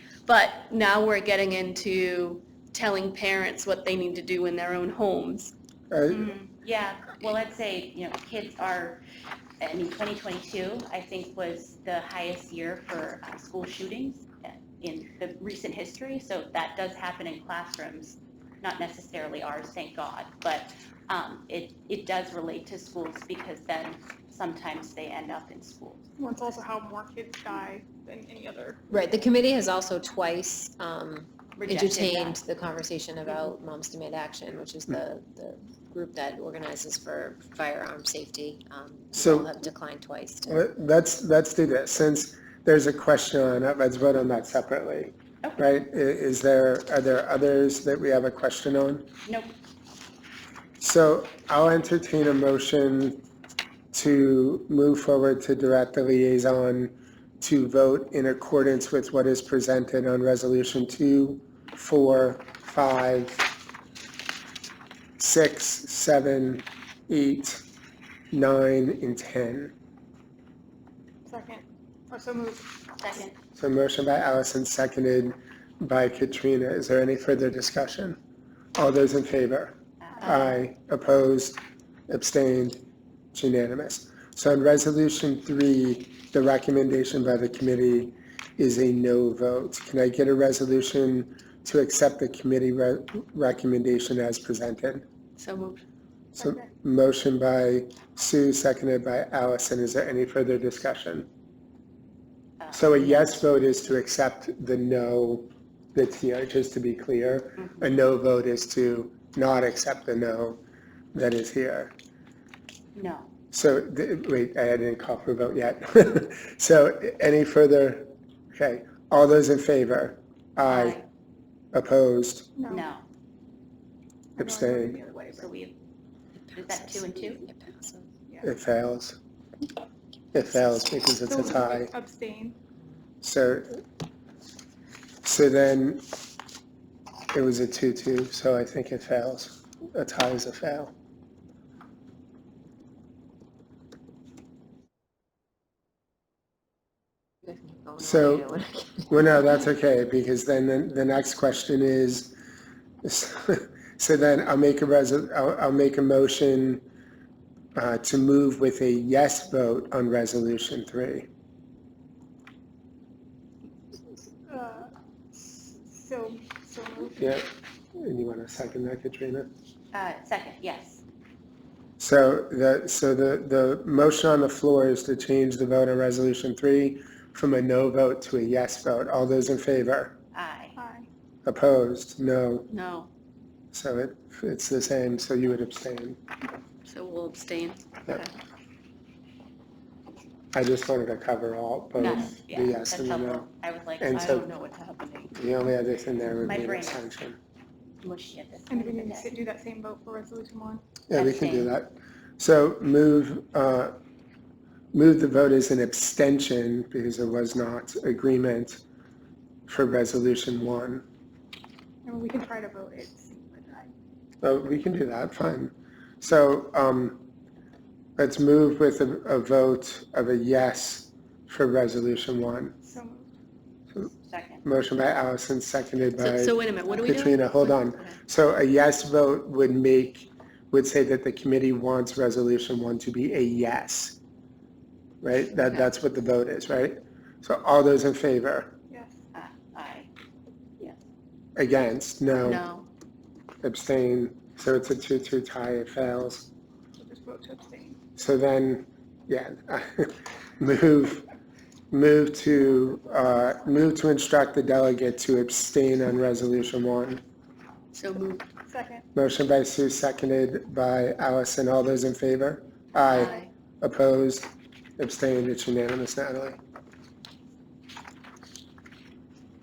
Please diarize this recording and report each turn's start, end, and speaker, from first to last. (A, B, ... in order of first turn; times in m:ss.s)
0:00.2-0:05.5 A
0:05.9-0:06.3 B
0:06.2-0:09.0 C
0:09.6-0:26.0 C
0:26.2-0:28.8 D
0:28.9-0:40.6 E
0:31.6-0:32.4 C
0:39.2-0:39.5 B
0:40.5-0:49.1 B
0:49.2-0:49.5 C
0:50.8-0:53.2 B
0:53.9-1:03.4 B
1:05.2-1:07.6 B
1:08.3-1:09.7 B
1:11.3-1:12.6 D
1:13.0-1:13.4 C
1:13.6-1:18.2 B
1:18.8-1:22.8 B
1:20.0-1:20.6 C
1:23.3-1:35.0 B
1:35.4-1:35.8 A
1:36.4-1:41.3 B
1:42.6-1:43.4 C
1:42.7-1:50.6 B
1:47.6-1:47.9 C
1:51.1-1:51.9 B
1:52.9-1:53.3 C
1:53.5-2:01.0 B
2:00.6-2:01.0 C
2:01.7-2:02.5 B
2:02.7-2:03.0 C
2:04.4-2:05.0 B
2:04.4-2:05.4 D
2:05.3-2:05.8 C
2:06.5-2:08.1 E
2:06.5-2:07.4 C
2:08.4-2:09.2 B
2:10.3-2:11.9 B
2:11.3-2:12.6 D
2:13.2-2:13.8 B
2:15.2-2:16.0 B
2:17.3-2:20.9 B
2:27.4-2:29.4 E
2:28.0-2:28.4 B
2:29.1-2:32.3 B
2:33.0-2:36.8 B
2:37.7-2:41.3 B
2:44.5-2:47.3 D
2:47.2-2:49.5 B
2:49.9-2:51.0 C
2:52.0-3:00.1 B
3:00.3-3:00.8 C
3:01.4-3:02.7 B
3:02.7-3:03.1 A
3:03.7-3:06.2 B
3:06.8-3:08.3 A
3:10.5-3:13.4 B
3:12.0-3:15.5 C
3:14.0-3:14.5 B
3:15.3-3:17.4 B
3:16.4-3:17.1 C
3:18.0-3:19.4 C
3:18.7-3:20.7 D
3:21.1-3:24.0 B
3:21.1-3:21.7 C
3:24.9-3:28.8 B
3:29.7-3:31.0 B
3:32.0-3:33.7 D
3:34.4-3:37.2 B
3:38.2-3:42.8 B
3:44.2-3:44.6 C
3:44.6-3:54.2 B
3:46.2-3:47.7 A
3:55.2-3:58.7 B
3:59.3-4:00.1 C
4:01.6-4:02.6 B
4:02.4-4:02.9 A
4:03.6-4:06.5 B
4:07.1-4:07.8 D
4:08.2-4:11.2 B
4:11.9-4:17.2 B
4:17.9-4:18.4 A
4:18.7-4:19.0 D
4:19.1-4:26.6 B
4:23.0-4:23.5 A